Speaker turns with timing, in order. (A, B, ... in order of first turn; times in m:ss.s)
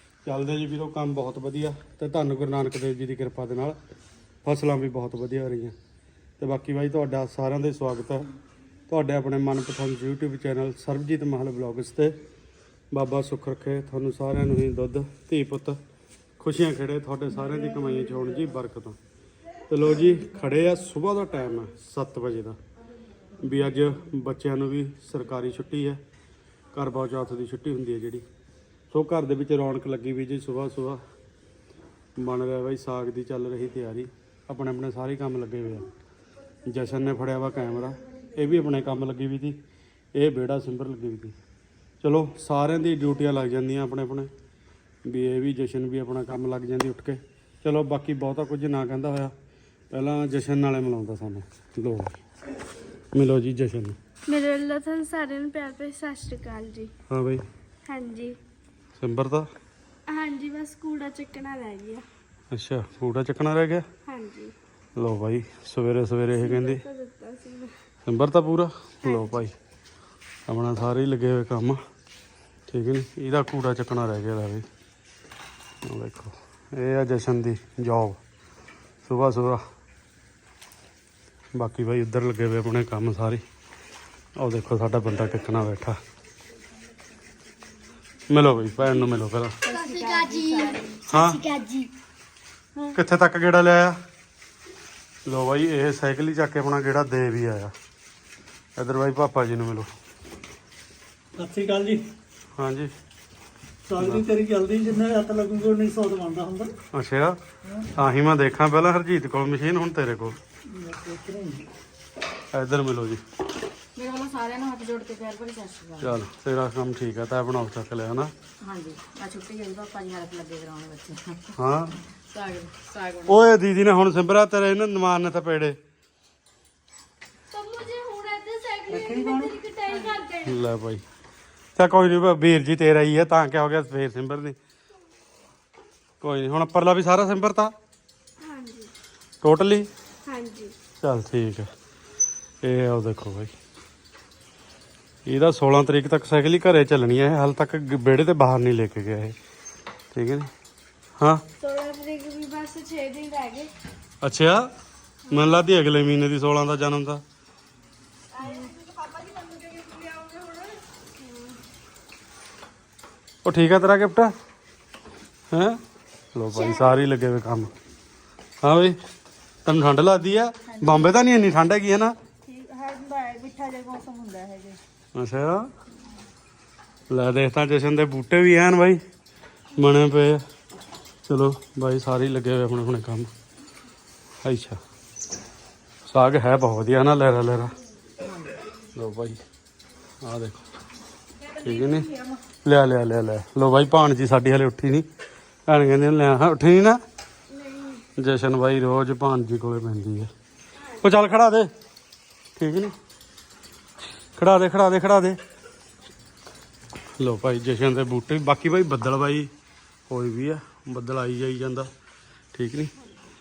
0:00.3-0:03.8 A
0:04.4-0:05.8 A
0:06.4-0:08.3 A
0:08.9-0:12.2 A
0:12.9-0:15.8 A
0:16.4-0:19.0 A
0:19.7-0:22.6 A
0:23.4-0:26.0 A
0:26.7-0:28.2 A
0:28.9-0:31.0 A
0:32.2-0:35.9 A
0:36.7-0:39.6 A
0:40.2-0:41.4 A
0:42.0-0:44.3 A
0:45.1-0:49.3 A
0:49.9-0:52.2 A
0:53.1-0:54.0 A
0:54.3-0:56.9 B
0:57.1-0:57.4 A
0:57.9-0:58.4 B
0:59.0-0:59.5 A
1:00.1-1:02.1 B
1:02.5-1:03.8 A
1:04.1-1:04.5 B
1:05.0-1:06.8 A
1:06.4-1:07.8 B
1:08.1-1:09.5 A
1:09.0-1:09.5 B
1:10.5-1:11.8 A
1:12.7-1:14.6 A
1:15.8-1:18.2 A
1:19.0-1:19.6 A
1:21.6-1:23.4 A
1:24.4-1:26.0 A
1:28.3-1:29.6 A
1:29.6-1:31.9 B
1:29.6-1:31.0 C
1:31.1-1:31.4 A
1:32.9-1:34.0 A
1:35.3-1:37.7 A
1:38.8-1:39.9 A
1:41.4-1:42.0 D
1:42.6-1:42.9 A
1:43.9-1:46.7 D
1:44.0-1:44.2 A
1:46.9-1:47.4 A
1:48.0-1:50.4 A
1:51.0-1:51.6 D
1:52.5-1:53.2 A
1:54.0-1:56.2 C
1:56.0-1:58.3 A
1:58.6-2:01.6 C
2:01.6-2:02.0 A
2:02.1-2:03.5 C
2:03.3-2:05.8 A
2:07.5-2:10.6 B
2:08.9-2:10.1 C
2:10.4-2:11.0 A
2:11.8-2:14.6 A
2:16.2-2:17.7 A
2:18.4-2:18.9 B
2:19.4-2:19.9 A
2:20.3-2:20.7 B
2:21.0-2:21.7 A
2:22.6-2:23.5 A
2:25.3-2:29.4 A
2:30.1-2:30.5 A
2:31.6-2:33.7 B
2:34.2-2:34.7 A
2:35.3-2:35.6 B
2:35.3-2:37.2 A
2:38.3-2:41.6 B
2:43.4-2:44.3 A
2:45.5-2:45.8 A
2:46.4-2:47.7 A
2:46.5-2:47.0 B
2:48.6-2:49.0 A
2:49.6-2:52.1 A
2:50.7-2:51.1 C
2:52.5-2:54.8 C
2:55.2-2:55.7 A
2:57.1-2:59.0 A
2:59.8-3:00.4 A
3:01.3-3:03.3 A
3:04.4-3:04.8 A
3:06.1-3:07.7 A
3:09.0-3:09.4 A
3:10.2-3:10.6 A
3:11.6-3:12.1 A
3:11.6-3:12.2 B
3:12.6-3:15.1 A
3:15.7-3:17.0 A
3:17.5-3:18.1 B
3:18.2-3:20.3 A
3:20.8-3:21.0 B
3:21.0-3:21.7 A
3:22.6-3:22.9 A
3:24.4-3:25.4 A
3:27.2-3:29.5 A
3:30.1-3:31.9 A
3:32.5-3:32.9 A